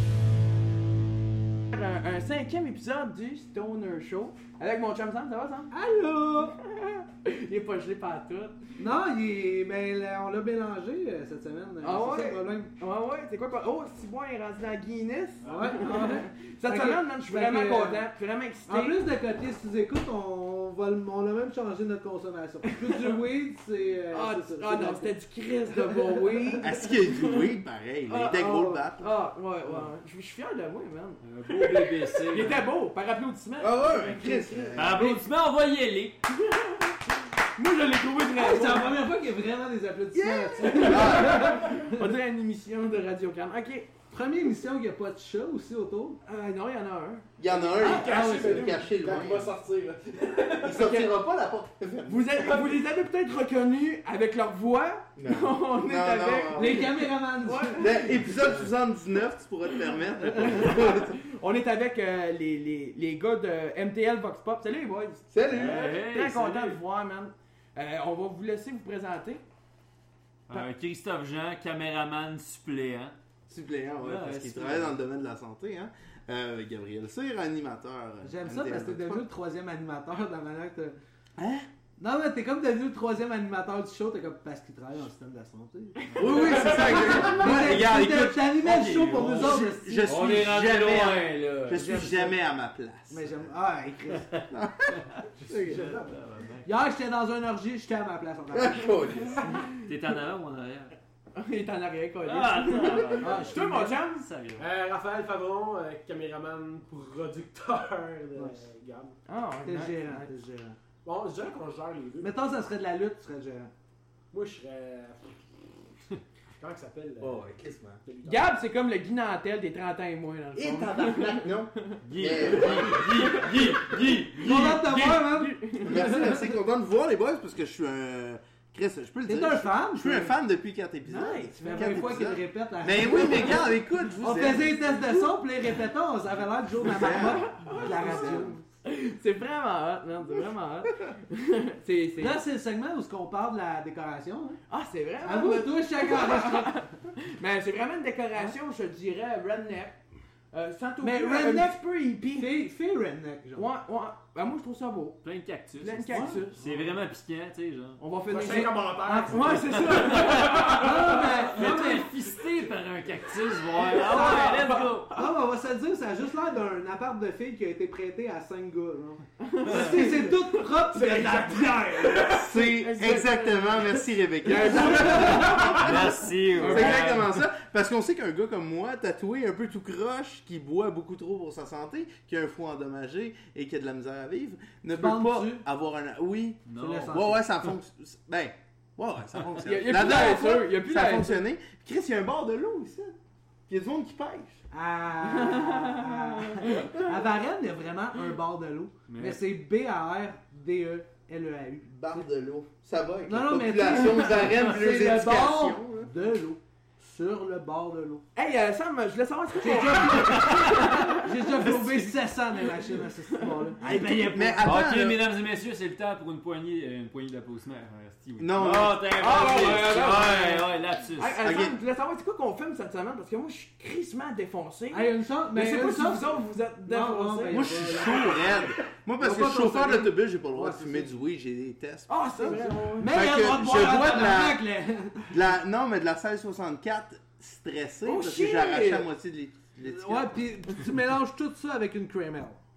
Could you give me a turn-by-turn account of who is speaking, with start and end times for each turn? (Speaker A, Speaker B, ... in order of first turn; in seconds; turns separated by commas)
Speaker A: 1.7-5.7, Speaker B: 5.7-6.6, Speaker A: 6.6-8.6, Speaker B: 8.8-12.7, Speaker A: 11.8-19.0, Speaker C: 15.4-16.1, Speaker B: 15.4-18.1, Speaker B: 18.7-25.1, Speaker A: 22.6-23.2, Speaker A: 24.1-27.5, Speaker B: 25.9-26.8, Speaker D: 26.6-29.1, Speaker A: 28.1-35.2, Speaker C: 31.2-32.6, Speaker D: 33.6-35.0, Speaker C: 34.7-36.2, Speaker A: 36.3-36.9, Speaker A: 37.5-39.0, Speaker B: 38.4-41.8, Speaker D: 40.1-41.7, Speaker A: 40.6-43.9, Speaker B: 44.1-46.2, Speaker A: 46.2-47.3, Speaker D: 47.4-49.5, Speaker E: 47.7-50.9, Speaker B: 47.8-48.7, Speaker D: 50.6-52.5, Speaker A: 50.7-51.1, Speaker A: 52.1-58.4, Speaker D: 55.2-57.0, Speaker B: 56.5-58.1, Speaker D: 57.8-61.2, Speaker A: 60.3-69.4, Speaker D: 65.3-65.9, Speaker C: 65.5-66.8, Speaker C: 70.5-73.2, Speaker D: 73.5-79.3, Speaker C: 74.0-74.9, Speaker B: 78.2-81.0, Speaker D: 81.4-81.7, Speaker B: 82.0-90.1, Speaker A: 86.0-87.0, Speaker D: 86.1-93.4, Speaker E: 86.6-87.3, Speaker C: 88.7-92.1, Speaker B: 91.7-92.4, Speaker B: 93.1-94.3, Speaker D: 94.5-95.9, Speaker C: 95.5-96.7, Speaker B: 95.6-96.1, Speaker B: 96.6-99.3, Speaker D: 98.5-99.7, Speaker C: 99.7-100.9, Speaker A: 101.3-104.2, Speaker C: 102.2-104.7, Speaker B: 103.2-104.0, Speaker E: 104.6-109.2, Speaker B: 108.3-108.6, Speaker A: 109.3-110.3, Speaker B: 109.6-110.8, Speaker E: 111.0-112.3, Speaker B: 112.2-113.7, Speaker E: 114.3-115.4, Speaker E: 116.6-117.4, Speaker D: 117.2-118.0, Speaker E: 118.0-118.5, Speaker A: 118.2-122.0, Speaker D: 120.5-123.3, Speaker C: 122.0-125.3, Speaker A: 122.7-123.8, Speaker B: 124.4-126.4, Speaker A: 125.0-126.0, Speaker D: 125.8-134.9, Speaker B: 129.2-130.3, Speaker A: 131.1-132.1, Speaker B: 131.6-133.6, Speaker B: 134.2-138.6, Speaker A: 135.1-135.3, Speaker D: 136.8-138.6, Speaker A: 137.0-142.4, Speaker B: 142.2-144.6, Speaker A: 144.7-150.0, Speaker B: 145.2-146.8, Speaker A: 150.5-152.6, Speaker B: 151.0-151.8, Speaker B: 152.3-153.7, Speaker A: 153.6-155.2, Speaker C: 155.2-158.0, Speaker A: 155.8-156.6, Speaker B: 156.1-156.4, Speaker A: 158.0-161.2, Speaker E: 158.3-161.2, Speaker B: 159.0-159.5, Speaker C: 159.7-165.1, Speaker B: 160.5-162.2, Speaker A: 163.9-165.2, Speaker B: 164.0-172.4, Speaker A: 169.4-170.5, Speaker E: 169.8-170.2, Speaker E: 170.9-172.6, Speaker D: 172.3-193.2, Speaker A: 172.5-175.8, Speaker B: 174.7-175.6, Speaker C: 175.1-177.4, Speaker E: 175.5-175.8, Speaker A: 176.6-177.2, Speaker B: 184.9-185.6, Speaker C: 186.7-187.2, Speaker B: 186.7-187.4, Speaker A: 189.6-191.4, Speaker D: 193.7-194.6, Speaker B: 194.7-202.2, Speaker A: 195.2-197.1, Speaker C: 199.1-199.4, Speaker D: 201.9-206.1, Speaker B: 203.2-208.2, Speaker A: 208.3-211.8, Speaker B: 209.6-214.7, Speaker C: 210.4-210.9, Speaker A: 212.8-213.7, Speaker D: 213.8-215.2, Speaker C: 214.6-221.4, Speaker D: 218.4-219.3, Speaker A: 219.2-228.3, Speaker D: 221.4-221.7, Speaker B: 224.9-228.4, Speaker D: 227.5-234.6, Speaker B: 229.2-231.2, Speaker A: 232.1-233.1, Speaker B: 233.0-235.3, Speaker D: 235.3-240.3, Speaker A: 238.0-239.1, Speaker B: 239.8-242.6